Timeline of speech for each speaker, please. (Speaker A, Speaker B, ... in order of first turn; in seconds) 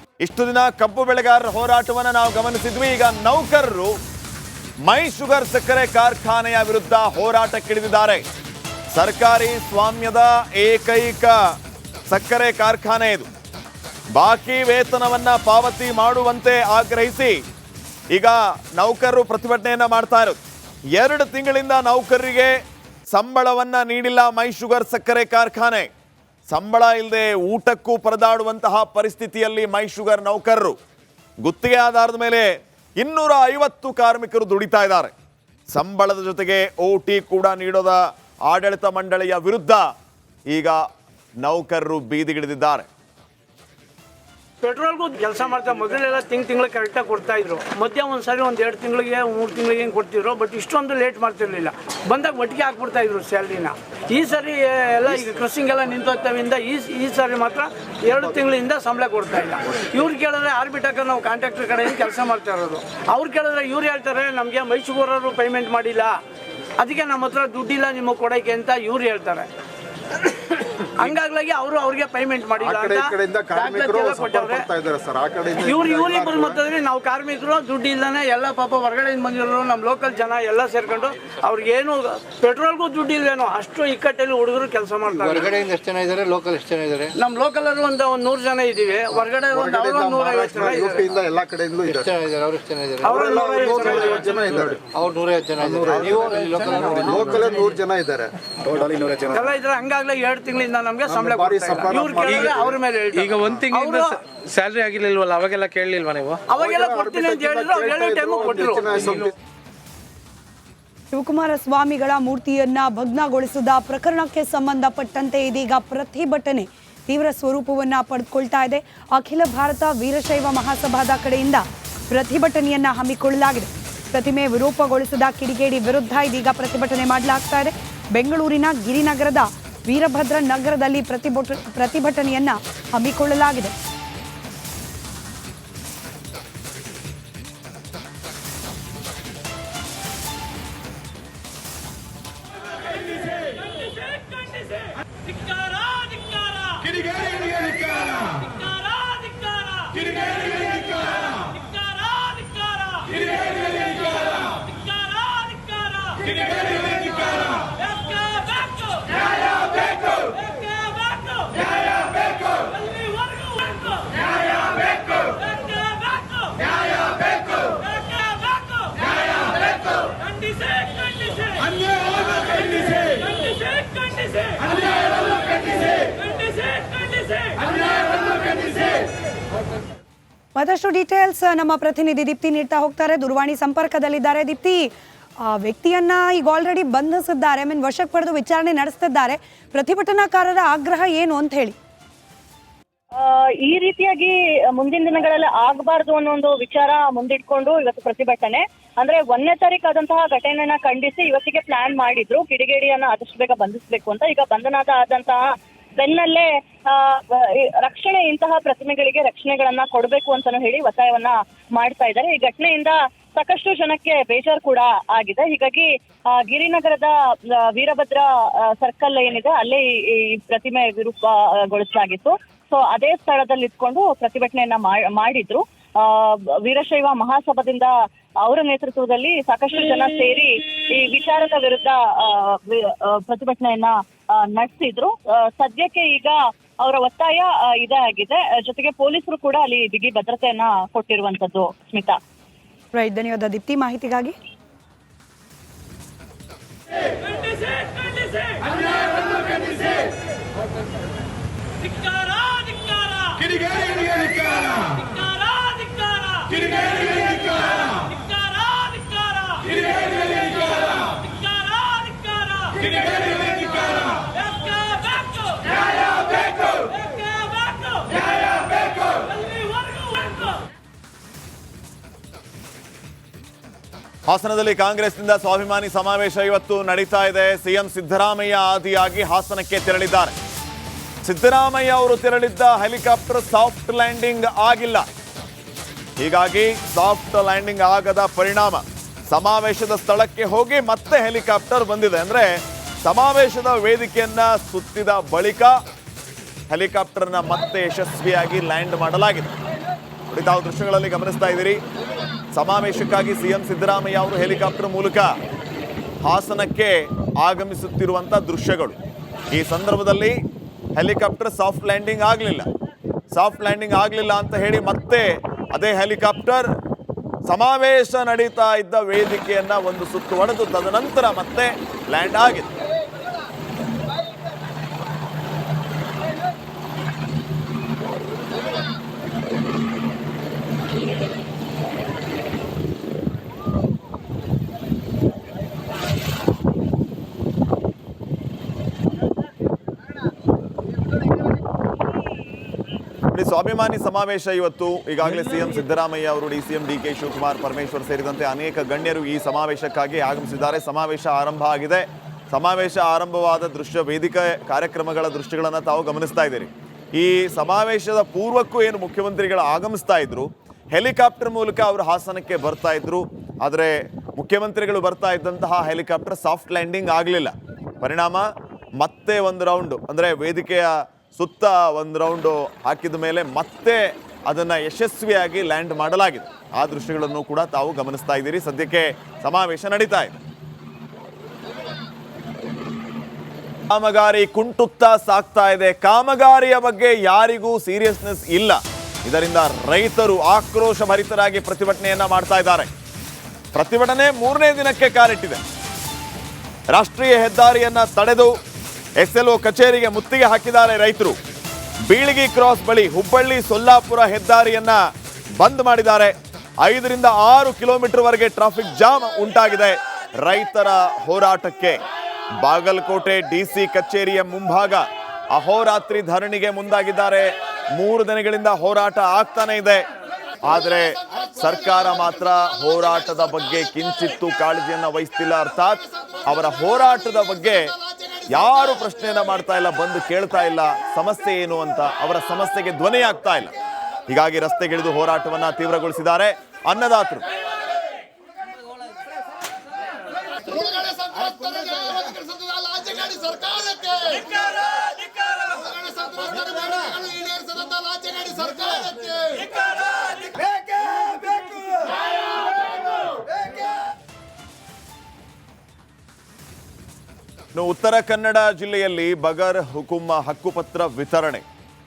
Speaker A: 0.2-4.0, 4.8-8.2, 8.9-11.6, 12.1-13.3, 14.1-17.4, 18.1-20.4, 21.0-22.6, 23.1-25.9, 26.5-30.8, 31.4-35.1, 35.7-39.8, 40.5-40.8, 41.4-42.9, 274.3-280.3, 281.2-285.0, 286.2-295.8, 296.7-299.5, 300.3-301.8, 302.5-305.3, 306.2-308.9, 309.5-310.4, 310.9-312.7, 313.3-316.7, 317.4-322.7, 343.3-380.4, 383.9-392.9, 393.7-395.6, 396.9-398.5, 399.2-401.4, 402.1-405.0, 405.6-412.0, 412.6-420.0, 420.6-427.9, 428.5-433.7, 434.3-437.4, 457.7-461.6
Speaker B: 44.6-66.2, 66.8-69.5, 70.5-74.7, 75.6-85.7, 87.2-91.1, 93.0-94.6, 99.3-104.2, 106.5-109.3, 146.8-148.5, 149.8-150.1, 253.3-254.9, 256.3-256.7, 262.6-262.9
Speaker C: 72.6-76.6, 89.5-92.2, 93.1-94.9, 95.6-99.4, 101.0-102.8, 106.5-109.3
Speaker D: 85.1-87.1, 91.9-93.1, 94.9-97.5
Speaker E: 103.1-106.4
Speaker F: 111.1-133.7, 180.6-184.9, 185.5-191.8, 242.9-244.3
Speaker G: 193.2-205.4, 206.0-217.1, 217.7-227.9, 228.4-234.0, 234.5-242.2